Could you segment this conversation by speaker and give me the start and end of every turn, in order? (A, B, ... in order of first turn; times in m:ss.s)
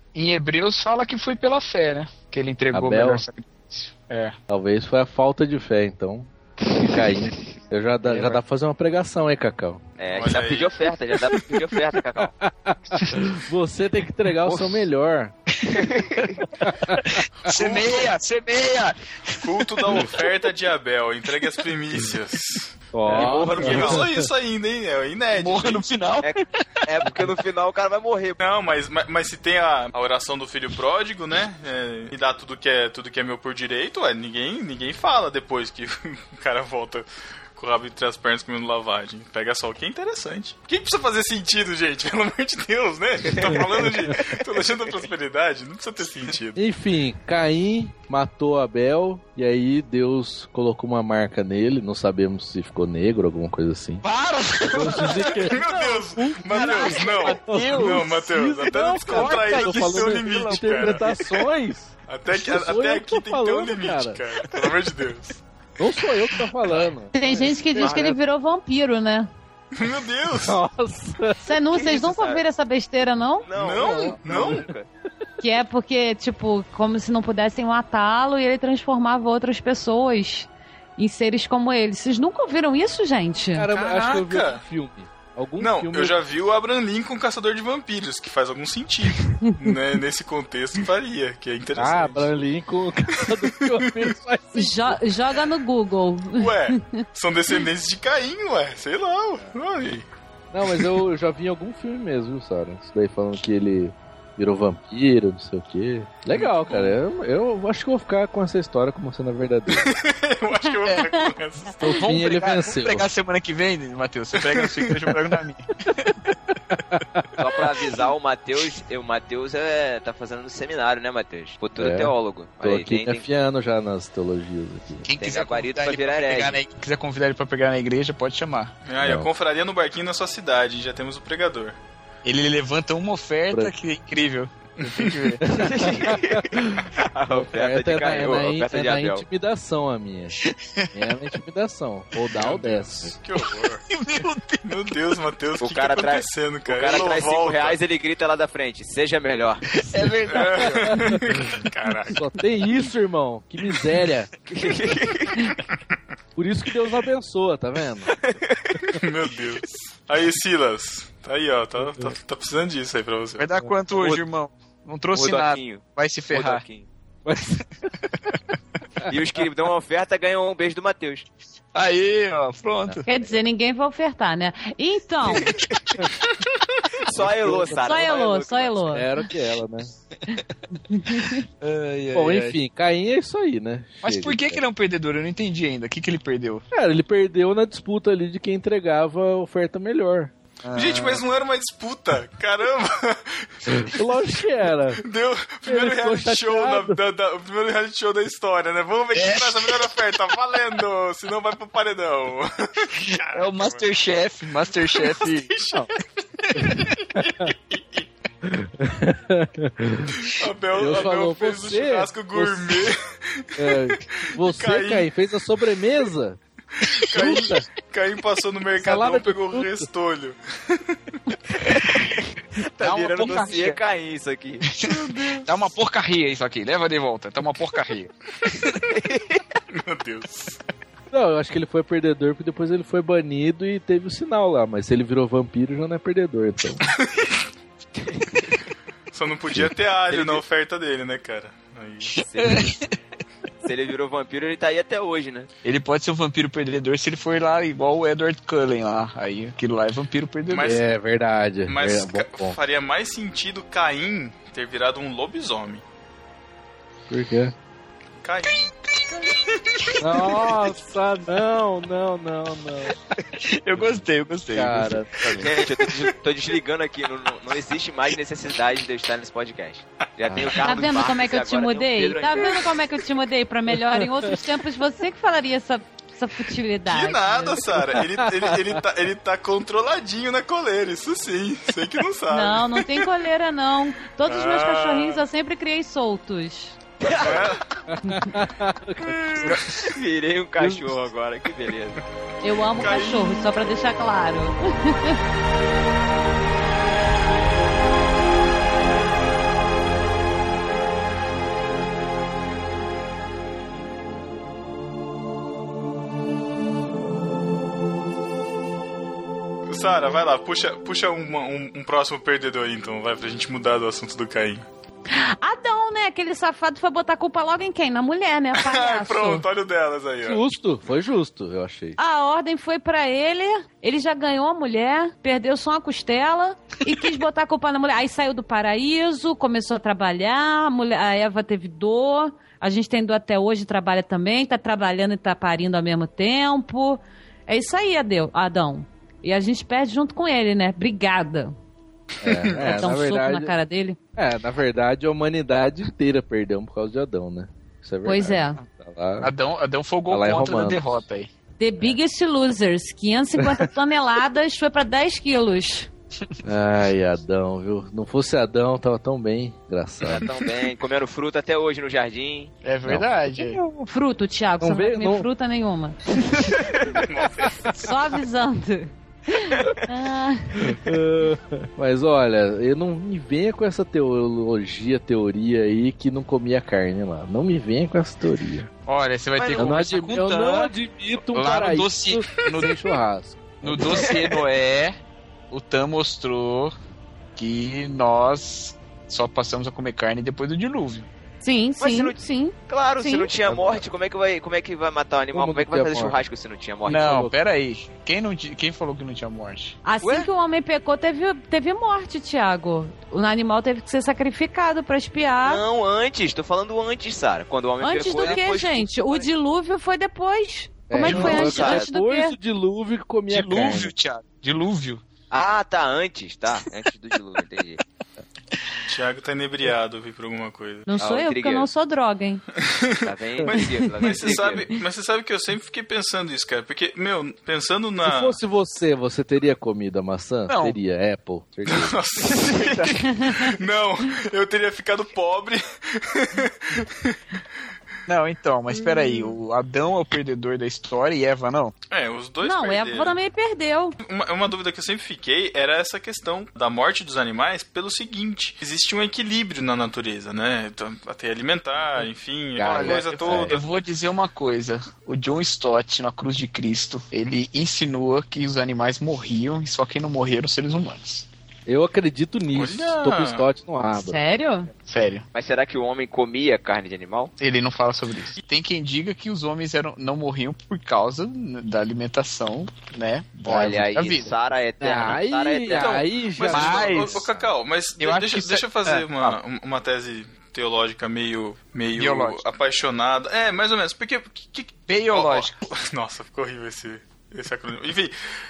0:00.1-0:04.3 A
0:02.7-0:03.2 B
0:04.5-0:09.8 B
0:08.1-0:08.4 A
0:10.0-0:12.3 C
0:10.1-0:11.3 D
0:12.2-0:15.3 B
0:14.4-0:14.8 A
0:15.6-0:20.3 A
0:16.6-0:17.2 B
0:17.4-0:18.1 D
0:19.4-0:25.8 D
0:22.9-0:24.2 B
0:23.1-0:24.0 C
0:25.3-0:26.6 A
0:26.2-0:28.4 C
0:28.4-0:46.6 D
0:46.6-0:54.0 B
0:54.0-0:55.5 A
0:54.7-1:04.2 B
0:55.0-1:01.1 D
0:56.5-0:58.2 A
0:59.0-1:01.3 A
1:02.1-1:05.4 D
1:05.8-1:08.2 B
1:07.1-1:09.3 E
1:07.7-1:08.1 C
1:09.8-1:10.6 D
1:10.4-1:11.5 B
1:11.4-1:13.5 E
1:11.7-1:12.4 C
1:13.4-1:14.9 C
1:13.6-1:14.7 D
1:13.8-1:14.7 B
1:15.4-1:23.7 E
1:23.5-1:26.2 B
1:23.7-1:24.6 D
1:25.6-1:32.3 D
1:31.8-1:35.0 B
1:33.3-1:34.0 D
1:34.5-1:37.0 E
1:36.4-1:40.0 D
1:40.5-1:49.9 B
1:46.3-1:46.9 D
1:49.7-1:51.8 D
1:50.8-1:51.1 A
1:51.8-1:53.1 B
1:51.8-1:56.2 A
1:54.5-1:54.9 D
1:56.7-1:57.2 B
1:57.4-2:03.2 C
2:01.8-2:05.1 B
2:05.0-2:08.7 A
2:05.2-2:06.6 C
2:08.8-2:11.8 D
2:09.0-2:09.3 B
2:12.2-2:15.5 A
2:14.8-2:15.3 D
2:15.4-2:20.4 B
2:15.6-2:19.2 C
2:20.4-2:20.9 A
2:20.9-2:23.1 B
2:22.3-2:23.8 D
2:23.9-2:24.7 A
2:24.6-2:27.8 D
2:25.6-2:29.6 C
2:29.7-2:31.2 A
2:30.3-2:32.2 D
2:30.8-2:31.4 B
2:32.1-2:34.3 B
2:34.5-2:35.5 C
2:36.4-2:38.1 B
2:38.2-2:38.8 C
2:38.9-2:43.4 D
2:41.8-2:42.1 B
2:43.4-2:46.6 A
2:43.9-2:44.2 C
2:45.1-2:46.9 C
2:47.2-2:47.6 B
2:49.1-2:51.3 C
2:51.7-2:53.0 A
2:53.0-2:55.5 E
2:55.3-2:56.0 C
2:57.0-2:58.9 C
2:57.2-2:57.9 B
2:57.8-2:59.1 E
2:58.9-2:59.9 B
3:00.9-3:01.4 E
3:01.6-3:02.6 A
3:02.1-3:04.6 B
3:04.0-3:06.6 A
3:06.7-3:10.3 B
3:10.6-3:11.2 A
3:10.7-3:13.9 D
3:13.7-3:15.0 B
3:15.0-3:23.8 D
3:15.6-3:17.0 B
3:19.1-3:19.8 A
3:23.0-3:25.5 A
3:24.9-3:28.1 D
3:26.5-3:26.8 B
3:28.4-3:30.2 B
3:30.2-3:35.1 D
3:30.8-3:32.9 B
3:33.6-3:36.4 B
3:36.8-3:41.1 D
3:37.1-3:37.6 B
3:38.8-3:39.9 B
3:42.0-3:44.6 C
3:42.8-3:43.8 A
3:44.6-3:48.1 A
3:44.8-3:45.5 D
3:48.8-3:49.4 C
3:49.7-3:50.6 D
3:51.1-3:56.8 B
3:57.0-3:57.3 D
3:58.0-3:58.6 C
3:59.1-4:02.2 D
4:00.1-4:00.4 C
4:02.1-4:02.9 A
4:02.3-4:02.7 C
4:03.6-4:05.5 C
4:05.6-4:10.8 A
4:10.5-4:10.8 D
4:10.6-4:12.6 B
4:11.7-4:15.8 D
4:17.1-4:17.5 B
4:18.2-4:18.7 D
4:19.2-4:20.0 D
4:20.0-4:22.9 B
4:23.3-4:25.4 A
4:23.8-4:25.5 B
4:25.3-4:32.7 C
4:30.3-4:30.6 B
4:30.6-4:37.6 E
4:33.9-4:34.3 B
4:36.8-4:43.1 D
4:37.8-4:38.8 B
4:42.3-4:46.8 E
4:44.2-4:45.2 D
4:47.0-4:47.6 C
4:47.0-4:47.6 D
4:47.9-4:49.6 B
4:48.0-4:48.3 E
4:49.4-4:49.9 A
4:49.8-4:52.0 C
4:50.6-4:50.9 B
4:52.4-4:55.2 E
4:52.7-4:53.7 D
5:09.7-5:14.6 D
5:15.1-5:19.4 E
5:18.5-5:20.4 D
5:20.2-5:22.0 B
5:22.0-5:41.5 E
5:42.2-5:43.5 B
5:42.3-5:42.8 D
5:42.8-5:44.0 E
5:44.2-5:49.3 B
5:48.0-5:48.6 E
5:49.2-5:51.3 A
5:50.1-5:51.0 B
5:51.6-5:55.9 E
5:56.4-6:00.3 B
6:00.0-6:02.5 C
6:02.6-6:03.6 A
6:02.9-6:03.9 B
6:03.9-6:06.5 E
6:04.6-6:05.3 B
6:07.1-6:07.6 D
6:07.6-6:10.6 E
6:10.6-6:18.7 B
6:18.8-6:20.7 A
6:19.4-6:19.8 C
6:19.6-6:24.1 B
6:21.3-6:22.8 A
6:23.6-6:25.0 A
6:23.9-6:24.4 C
6:25.5-6:26.8 A
6:27.4-6:31.1 A
6:31.4-6:33.3 E
6:31.8-6:32.2 C
6:32.7-6:37.2 C
6:33.4-6:33.8 B
6:35.3-6:36.2 B
6:36.8-6:39.8 A
6:36.9-6:37.3 B
6:39.8-6:45.6 E
6:45.4-6:49.3 C
6:47.8-6:52.4 E
6:47.9-6:48.5 A
6:50.9-6:53.9 B
6:51.0-6:51.9 C
6:53.3-6:55.0 A
6:55.3-6:57.8 C
6:58.9-7:00.9 D
7:00.9-7:02.4 E
7:01.0-7:01.7 C
7:02.6-7:08.4 D
7:03.0-7:04.7 C
7:08.0-7:12.0 B
7:10.5-7:10.8 A
7:11.6-7:17.2 D
7:12.3-7:13.1 A
7:18.1-7:21.7 A
7:21.9-7:23.2 D
7:22.4-7:24.0 E
7:24.0-7:33.7 D
7:32.6-7:33.6 B
7:32.6-7:41.3 A
7:41.6-7:44.2 B
7:42.5-7:43.5 D
7:44.0-7:44.7 E
7:44.8-7:45.2 A
7:45.3-7:47.3 C
7:47.4-7:54.3 A
7:53.5-7:56.0 C
7:54.8-7:57.2 B
7:55.7-8:08.2 D
7:56.5-7:57.2 A
7:58.0-7:59.4 A
8:02.0-8:02.4 A
8:04.9-8:05.5 A